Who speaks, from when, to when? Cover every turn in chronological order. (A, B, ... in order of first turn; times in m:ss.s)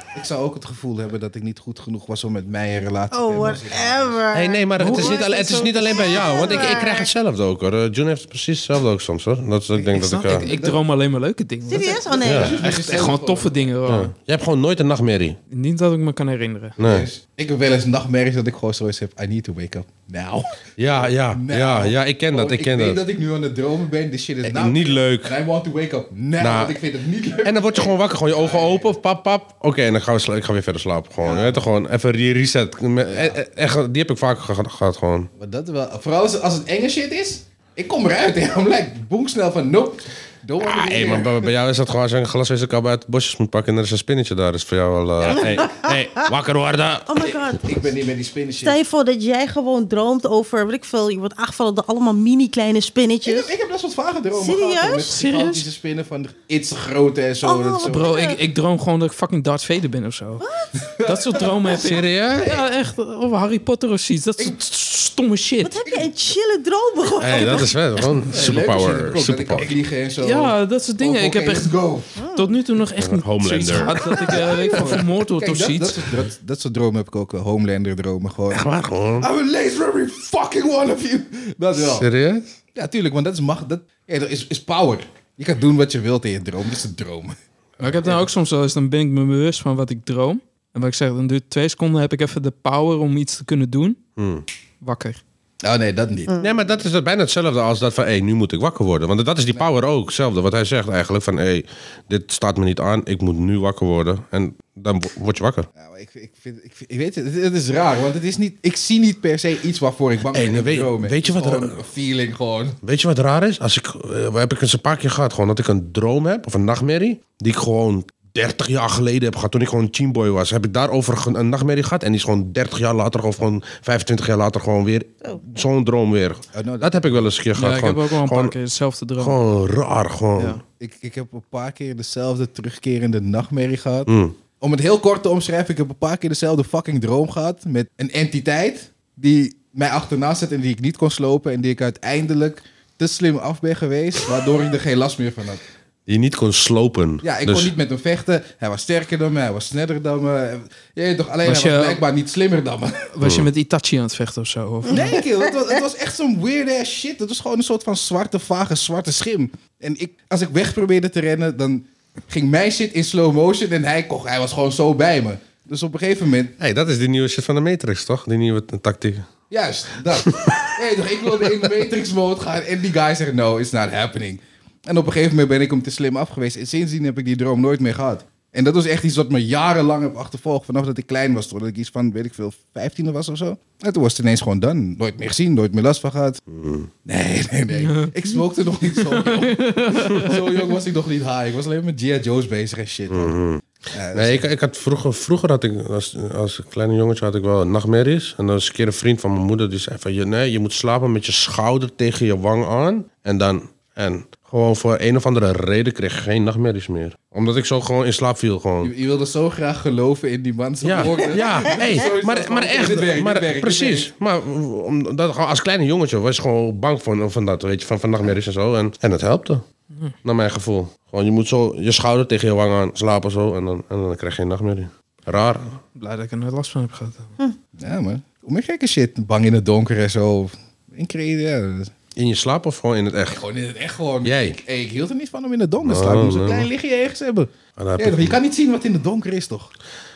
0:00.1-0:04.2 A
0:03.1-0:07.1 B
0:04.3-0:10.5 C
0:04.8-0:06.7 D
0:09.8-0:10.8 A
0:09.9-0:14.1 D
0:11.7-0:12.6 B
0:11.7-0:13.7 A
0:12.2-0:12.5 C
0:13.8-0:15.4 C
0:15.5-0:16.8 D
0:16.8-0:17.1 C
0:16.8-0:29.0 A
0:20.8-0:23.0 C
0:24.4-0:25.3 C
0:26.4-0:26.7 C
0:27.4-0:35.3 C
0:31.2-0:31.6 A
0:33.1-0:33.4 A
0:35.4-0:41.5 A
0:40.6-0:47.3 C
0:45.2-0:45.6 A
0:45.3-0:46.2 B
0:47.1-0:47.6 B
0:47.5-0:48.8 A
0:48.6-0:53.5 B
0:53.2-0:58.1 A
0:54.4-0:55.2 B
0:55.1-0:55.6 D
0:57.4-0:58.4 B
0:57.8-1:00.4 D
1:00.4-1:00.7 B
1:00.8-1:02.6 A
1:01.0-1:05.8 D
1:01.8-1:02.5 C
1:05.6-1:07.8 B
1:07.2-1:09.7 C
1:08.2-1:12.2 A
1:09.6-1:11.7 D
1:12.2-1:12.6 B
1:12.3-1:16.1 D
1:13.0-1:15.0 C
1:14.1-1:18.6 A
1:18.5-1:19.3 C
1:19.2-1:22.1 A
1:21.8-1:22.5 C
1:22.7-1:27.3 A
1:27.8-1:34.0 D
1:34.2-1:34.4 C
1:34.8-1:35.2 D
1:35.6-1:36.3 A
1:36.4-1:45.7 C
1:45.8-1:52.8 A
1:50.3-1:51.8 C
1:52.8-2:08.5 C
2:06.5-2:07.2 A
2:07.5-2:09.4 D
2:09.2-2:10.6 C
2:10.4-2:10.6 D
2:10.8-2:25.6 A
2:14.1-2:14.4 C
2:26.1-2:27.7 C
2:27.2-2:33.1 A
2:31.4-2:32.0 D
2:33.1-2:35.2 D
2:33.2-2:33.5 C
2:34.9-2:46.5 A
2:34.9-2:35.2 B
2:46.6-2:49.3 C
2:49.5-3:06.4 A
2:50.1-2:50.7 C
2:51.4-2:51.6 C
3:06.5-3:06.9 C
3:07.0-3:13.3 A
3:07.7-3:10.7 D
3:13.1-3:28.9 C
3:13.9-3:14.4 A
3:28.8-3:34.1 A
3:30.8-3:39.6 C
3:40.2-3:45.8 C
3:46.0-3:47.3 D
3:47.8-3:51.9 A
3:52.2-3:53.4 C
3:53.3-3:59.7 A
3:54.2-3:54.6 C
3:55.8-3:56.7 C
3:57.8-3:58.4 C